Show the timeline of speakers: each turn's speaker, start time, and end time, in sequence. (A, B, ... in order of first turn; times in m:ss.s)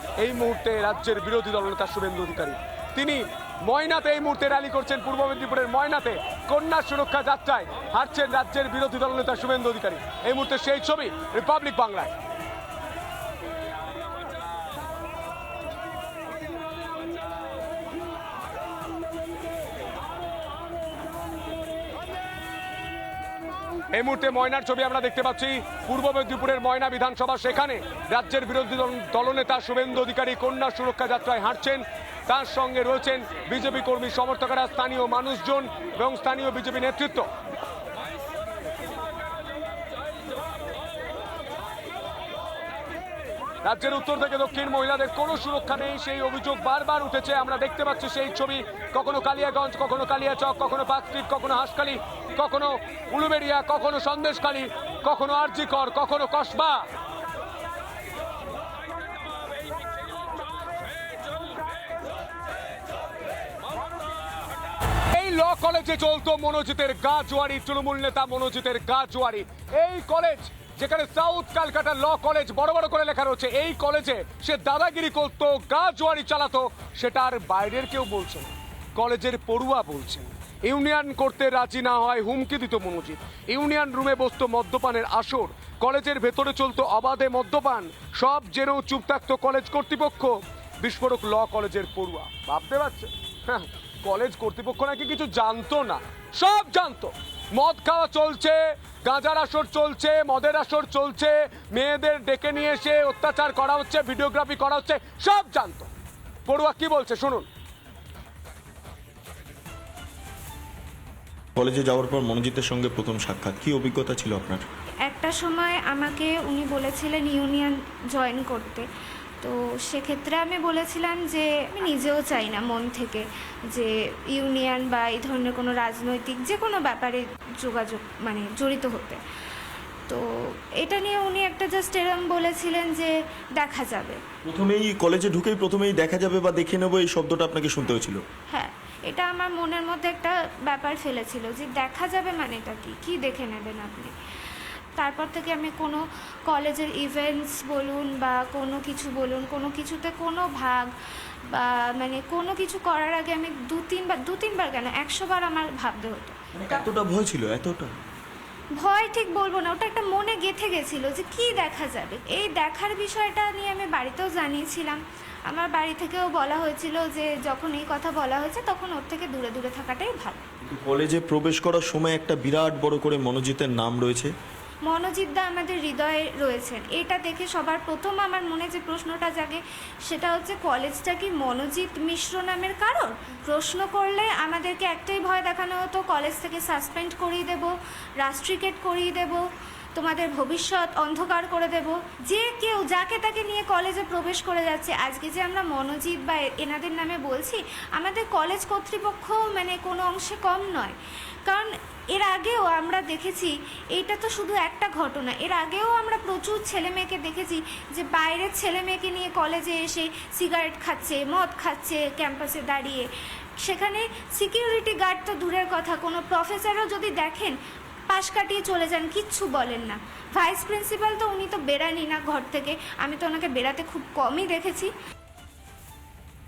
0:00.2-0:12.1 A
0:23.9-0:37.3 A
0:43.6-0:56.9 A
1:05.1-1:45.9 A
1:46.4-1:47.5 A
1:51.6-1:54.6 B
1:55.0-1:58.8 C
1:59.4-2:09.2 C
2:10.1-2:14.2 C
2:14.4-2:18.2 B
2:18.5-2:24.1 C
2:25.0-2:30.9 C
2:31.5-2:36.4 C
2:36.5-2:37.9 B
2:38.8-2:50.5 C
2:50.6-2:54.3 B
2:54.8-3:09.4 C
3:10.0-3:33.1 C
3:33.6-3:37.6 C
3:38.1-3:44.9 C